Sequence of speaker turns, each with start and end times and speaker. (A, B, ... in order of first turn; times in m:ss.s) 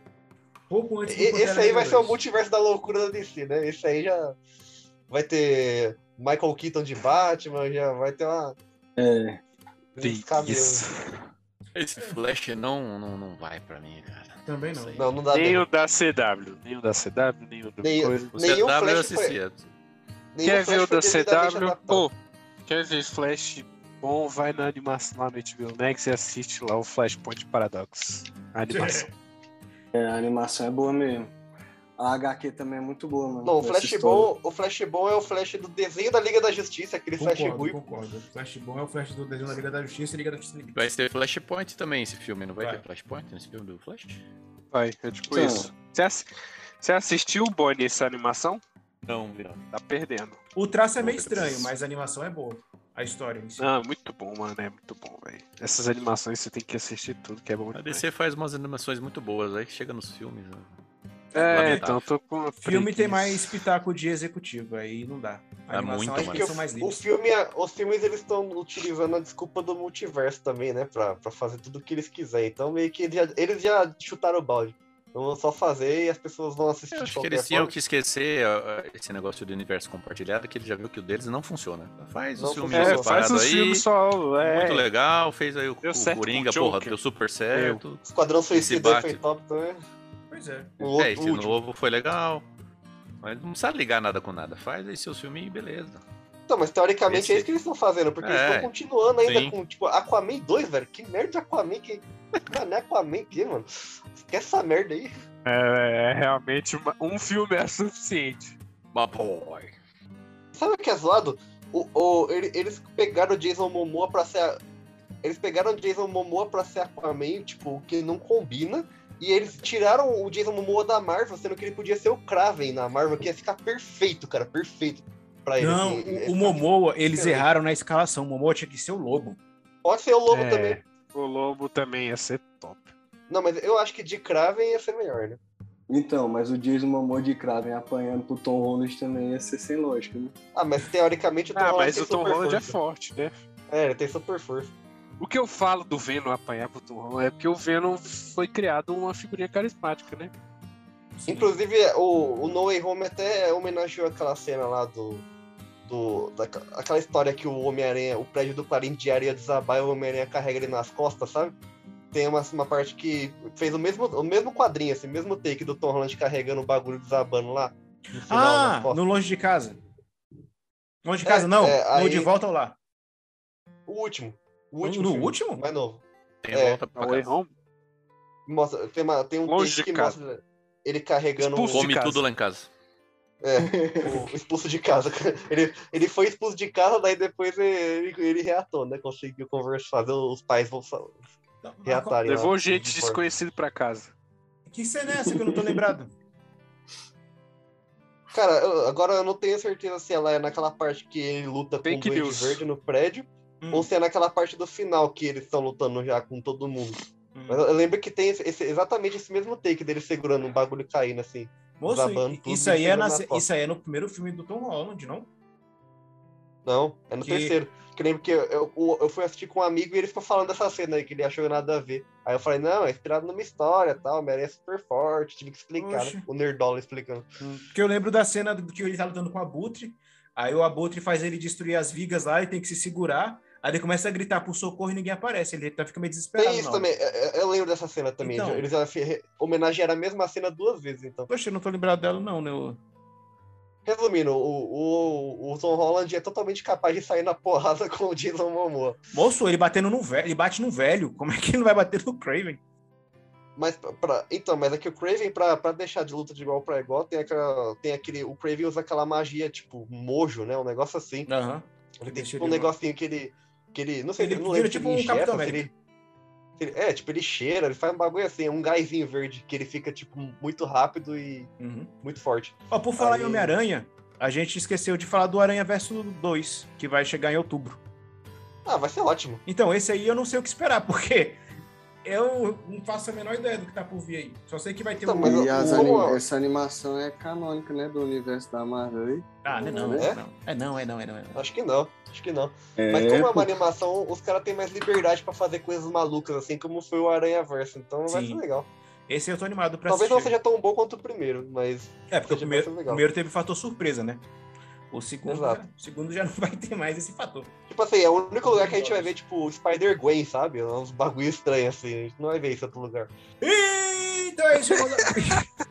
0:00.7-0:02.2 A
0:01.1-0:04.3 B
0:05.1-0:08.5 B
0:09.0-0:09.4 C
0:10.0-0:10.8 B
0:10.0-0:11.0 D
0:11.7-0:15.0 E
0:14.4-0:15.0 A
0:15.0-0:15.6 B
0:15.3-0:18.3 D
0:17.8-0:19.4 B
0:18.3-0:19.7 E
0:20.3-0:22.0 B
0:20.4-0:22.1 D
0:22.6-0:29.1 D
0:28.7-0:29.1 A
0:29.9-0:31.3 C
0:32.0-0:34.3 C
0:33.4-0:37.8 B
0:37.2-0:40.8 A
0:40.7-0:44.2 E
0:44.7-0:46.3 D
0:45.3-0:45.7 C
0:46.8-0:48.6 D
0:49.0-0:49.6 E
0:49.7-0:50.4 D
0:50.6-0:53.6 A
0:51.0-0:51.7 E
0:53.6-0:58.0 D
0:57.7-1:00.7 E
1:01.3-1:02.1 E
1:01.3-1:03.5 D
1:02.6-1:07.0 A
1:05.7-1:06.5 E
1:06.2-1:17.8 B
1:16.9-1:23.8 E
1:22.4-1:23.3 B
1:22.7-1:24.9 D
1:24.4-1:29.2 E
1:25.8-1:27.0 D
1:27.5-1:27.8 D
1:28.0-1:29.8 B
1:30.3-1:30.7 A
1:30.8-1:31.6 B
1:30.8-1:32.5 E
1:33.2-1:36.0 E
1:36.5-1:45.1 B
1:37.1-1:37.5 E
1:38.2-1:38.7 E
1:39.2-1:39.6 E
1:45.4-1:48.6 D
1:48.9-1:49.7 E
1:50.5-1:54.6 B
1:55.2-2:07.5 B
2:05.6-2:09.4 A
2:09.8-2:10.8 B
2:10.3-2:12.9 D
2:13.3-2:15.4 B
2:15.9-2:20.3 C
2:20.5-2:22.8 B
2:21.5-2:23.4 D
2:23.7-2:24.7 B
2:25.2-2:30.3 D
2:31.2-2:31.5 A
2:31.3-2:35.2 B
2:35.8-2:41.5 B
2:42.1-2:49.0 B
2:48.2-2:49.8 A
2:51.0-2:52.8 A
2:51.2-2:52.3 B
2:53.9-2:56.8 B
2:54.8-2:55.6 A
2:56.4-2:57.3 E
2:56.9-2:57.5 D
2:58.5-3:02.0 B
2:59.4-3:00.2 D
3:01.4-3:02.2 D
3:01.7-3:02.7 E
3:03.4-3:11.2 B
3:03.6-3:04.3 C
3:11.6-3:12.2 A
3:11.8-3:13.2 B
3:12.2-3:14.1 D
3:14.7-3:16.1 A
3:15.2-3:15.8 C
3:18.3-3:33.4 B
3:21.8-3:22.6 D
3:23.6-3:23.9 A
3:27.3-3:27.6 A
3:31.8-3:35.3 A
3:36.6-3:47.3 B
3:37.2-3:37.6 A
3:45.8-3:46.2 A
3:47.4-3:56.8 A
3:56.4-4:01.3 B
3:58.2-3:58.6 A
4:01.3-4:02.8 A
4:03.8-4:09.0 B
4:09.1-4:12.6 A
4:13.6-4:21.3 B
4:21.3-4:22.7 A
4:22.0-4:25.7 B
4:24.2-4:25.7 A
4:26.6-4:31.5 B
4:31.6-4:31.9 A
4:32.0-4:33.5 B
4:32.7-4:37.8 A
4:38.6-4:39.4 B
4:39.4-4:41.4 A
4:42.0-4:46.2 A
4:45.0-4:46.2 B
4:45.2-4:50.1 C
4:49.4-4:51.4 A
4:49.9-4:50.2 B
4:51.3-4:58.7 B
4:52.8-4:53.5 C
4:58.1-4:58.4 A
4:59.1-5:00.3 A
4:59.9-5:03.0 B
5:02.1-5:04.2 A
5:04.9-5:07.5 A
5:05.3-5:05.6 B
5:07.7-5:13.1 B
5:08.4-5:09.1 A
5:13.4-5:15.5 A